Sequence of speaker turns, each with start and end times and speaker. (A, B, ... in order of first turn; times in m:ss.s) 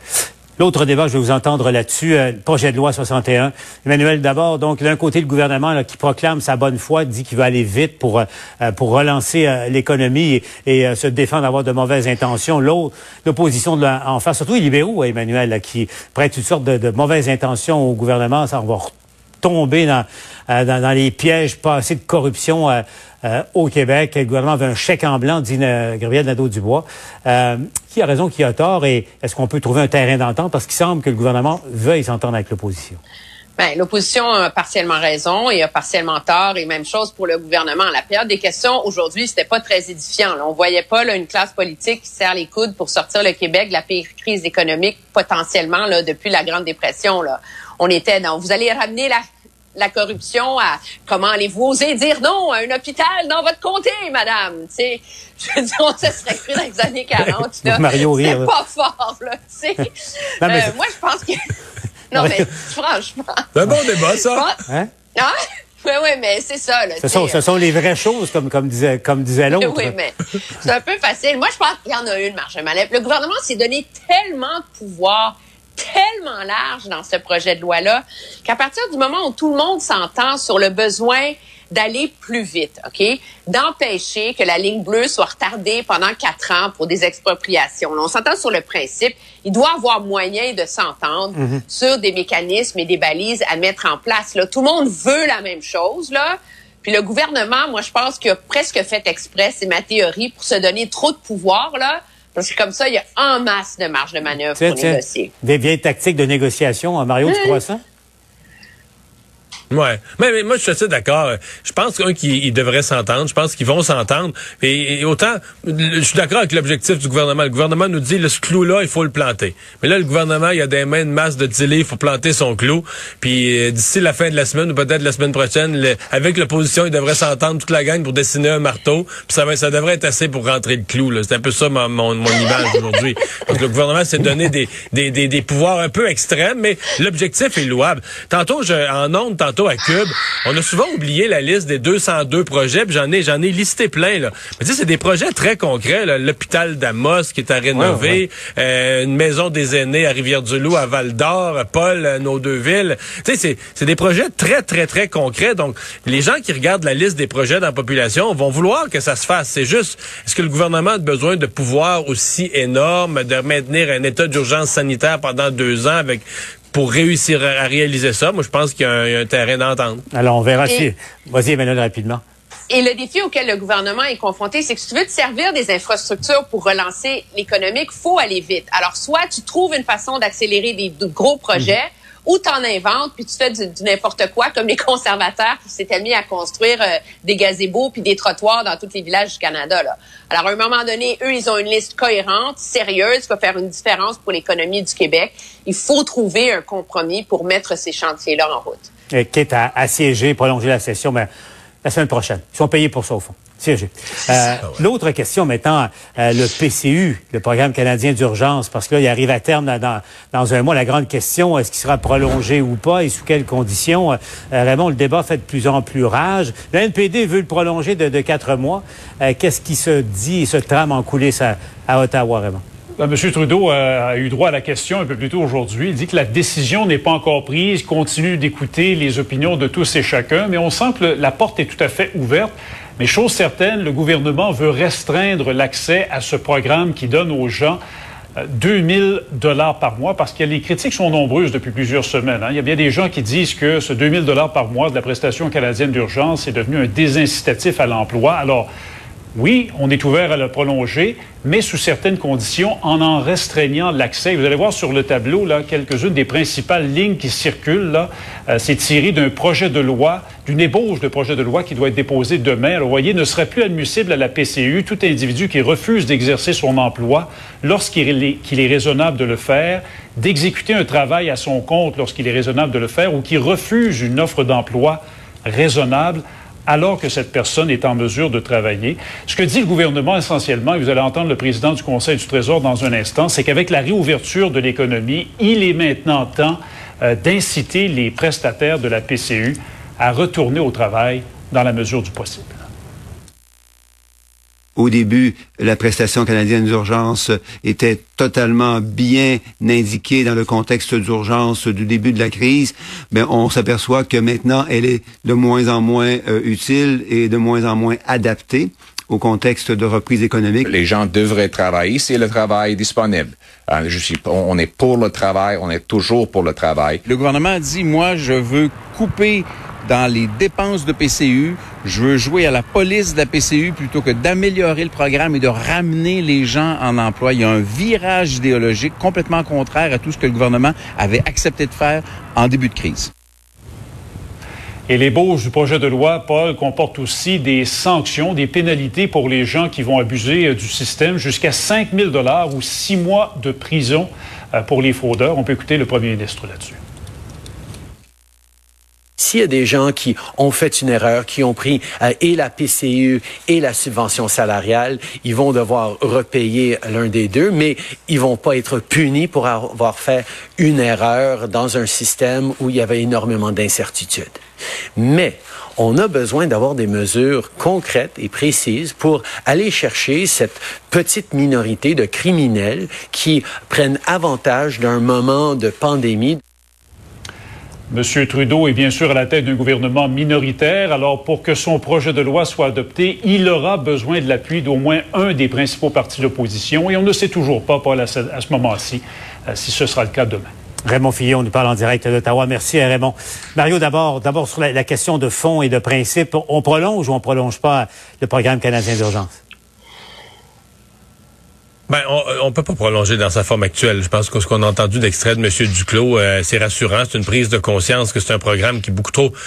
0:00.6-0:33.0 A
0:33.6-0:49.2 B
0:49.8-0:59.9 B
0:57.7-0:58.5 A
1:00.4-1:01.5 B
1:00.4-1:00.7 A
1:02.1-1:04.6 B
1:03.6-1:04.4 C
1:05.8-1:07.4 B
1:07.0-1:09.9 A
1:09.5-1:45.3 B
1:31.4-1:31.6 A
1:44.6-1:47.8 A
1:47.2-1:47.6 B
1:49.7-2:50.0 C
2:27.8-2:28.1 A
2:50.1-2:52.2 A
2:50.6-2:50.9 B
2:52.7-3:18.9 B
3:19.1-3:21.3 A
3:21.8-3:42.6 A
3:43.0-3:57.8 D
3:58.4-4:08.7 D
4:09.4-4:52.6 D
4:54.8-5:10.7 E
5:10.7-5:17.0 F
5:17.0-5:33.1 G
5:34.9-5:46.8 D
5:49.2-6:04.4 H
6:05.0-6:16.4 H
6:17.9-6:30.5 D
6:30.9-6:39.4 A
6:41.9-6:49.4 C